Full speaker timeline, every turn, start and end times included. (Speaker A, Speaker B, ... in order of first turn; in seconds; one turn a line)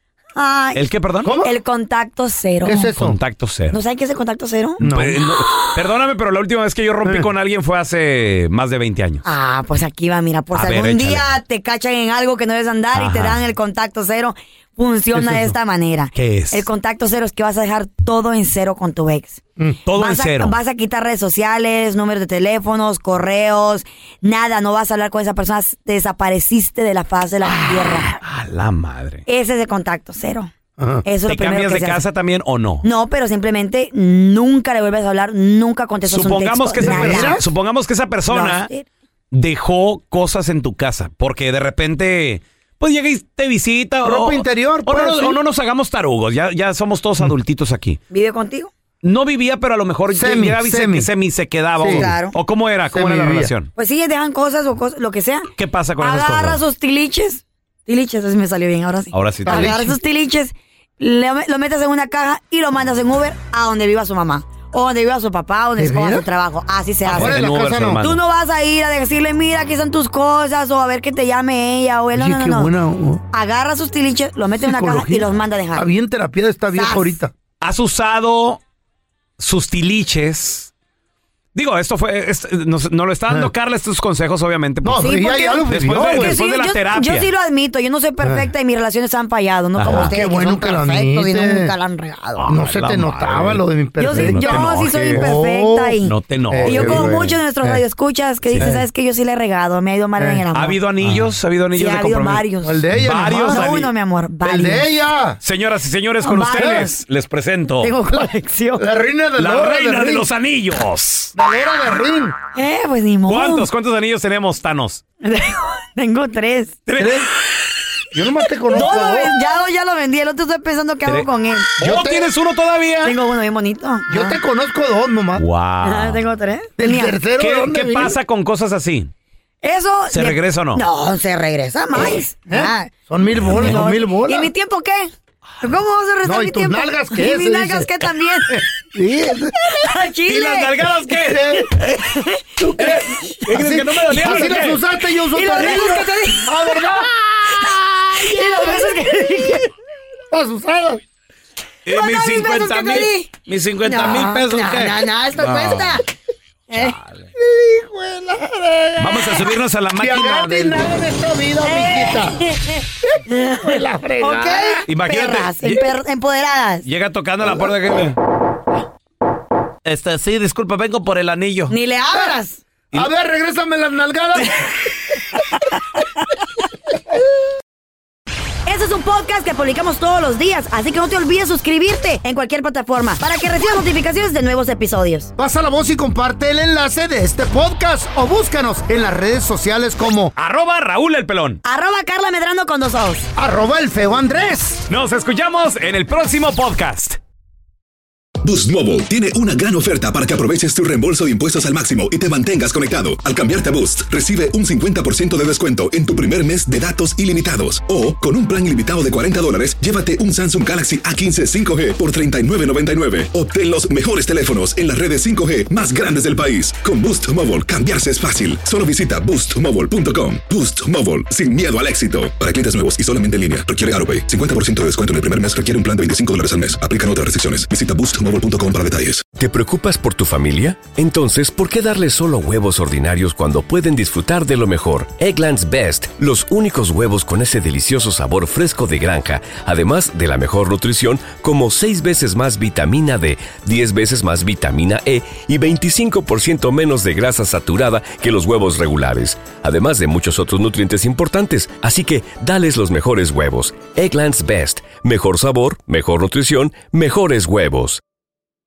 Speaker A: 0.3-2.9
Speaker B: 0.7-1.4
Speaker C: 1.2-1.5
Speaker C: 2.6-3.2
Speaker B: 3.0-3.8
Speaker A: 3.7-4.8
Speaker C: 4.8-5.2
Speaker B: 4.8-9.2
Speaker A: 5.4-5.8
Speaker A: 9.2-28.1
Speaker B: 10.5-11.2
Speaker B: 12.9-13.4
Speaker C: 15.1-15.5
Speaker B: 16.1-16.6
Speaker B: 19.8-20.6
Speaker B: 27.5-29.2
Speaker A: 29.2-30.5
Speaker C: 30.8-31.0
Speaker A: 31.0-32.0
Speaker B: 31.3-32.9
Speaker A: 32.8-37.5
Speaker B: 36.1-38.7
Speaker C: 36.8-37.5
Speaker A: 38.3-38.9
Speaker B: 39.3-48.0
Speaker C: 44.0-45.4
Speaker A: 48.1-48.7
Speaker B: 49.0-53.7
Speaker C: 50.1-51.1
Speaker C: 51.8-52.1
Speaker A: 51.8-52.4
Speaker C: 52.9-53.5
Speaker A: 53.8-67.4
Speaker B: 55.6-56.6
Speaker B: 59.1-59.8
Speaker C: 59.5-59.9
Speaker C: 65.8-66.2
Speaker B: 67.0-68.2
Speaker C: 67.1-68.0
Speaker A: 68.0-72.7
Speaker C: 72.1-73.2
Speaker A: 73.3-75.9
Speaker C: 74.6-77.3
Speaker A: 76.7-77.2
Speaker B: 77.6-78.6
Speaker B: 79.4-80.7
Speaker B: 81.5-87.3
Speaker C: 84.8-86.4
Speaker A: 85.0-92.6
Speaker C: 88.2-88.5
Speaker B: 89.8-90.1
Speaker C: 89.8-91.7
Speaker B: 92.4-95.3
Speaker C: 92.5-96.0
Speaker A: 94.0-100.8
Speaker B: 96.0-97.2
Speaker C: 96.5-97.8
Speaker C: 98.6-98.8
Speaker C: 100.2-100.4
Speaker B: 100.5-103.9
Speaker C: 101.0-101.3
Speaker A: 101.7-102.8
Speaker C: 102.6-103.7
Speaker A: 103.4-104.9
Speaker C: 104.4-105.4
Speaker B: 105.4-107.9
Speaker A: 106.2-107.0
Speaker A: 107.8-108.8
Speaker C: 108.8-110.2
Speaker B: 109.4-111.3
Speaker C: 111.3-112.3
Speaker A: 112.5-113.7
Speaker B: 113.2-115.0
Speaker A: 115.2-116.8
Speaker B: 116.9-117.3
Speaker C: 117.0-117.3
Speaker C: 118.1-119.3
Speaker A: 118.7-121.8
Speaker B: 121.8-123.1
Speaker C: 121.8-122.3
Speaker A: 123.0-124.4
Speaker C: 124.1-125.4
Speaker B: 125.3-126.2
Speaker A: 125.8-127.2
Speaker C: 126.8-128.2
Speaker B: 127.4-129.1
Speaker A: 129.6-138.6
Speaker B: 130.1-130.8
Speaker C: 132.0-134.5
Speaker C: 136.2-137.9
Speaker C: 138.5-139.6
Speaker A: 139.6-140.9
Speaker B: 140.2-141.7
Speaker C: 141.2-141.7
Speaker A: 141.8-143.2
Speaker C: 142.6-148.2
Speaker B: 142.8-144.8
Speaker A: 144.2-144.7
Speaker A: 145.3-147.0
Speaker A: 147.6-149.7
Speaker C: 150.3-151.0
Speaker B: 151.8-156.0
Speaker A: 151.9-156.0
Speaker A: 156.7-156.9
Speaker B: 156.7-157.3
Speaker C: 157.4-162.4
Speaker B: 159.0-161.1
Speaker A: 161.6-166.9
Speaker C: 163.1-164.8
Speaker B: 164.9-165.8
Speaker B: 166.8-168.2
Speaker B: 169.8-171.7
Speaker A: 171.7-172.6
Speaker C: 172.9-174.8
Speaker A: 178.6-185.3
Speaker C: 185.4-190.3
Speaker B: 190.3-191.6
Speaker A: 191.6-193.3
Speaker C: 193.3-194.8
Speaker B: 194.9-197.2
Speaker D: 198.4-229.3
Speaker E: 229.4-258.0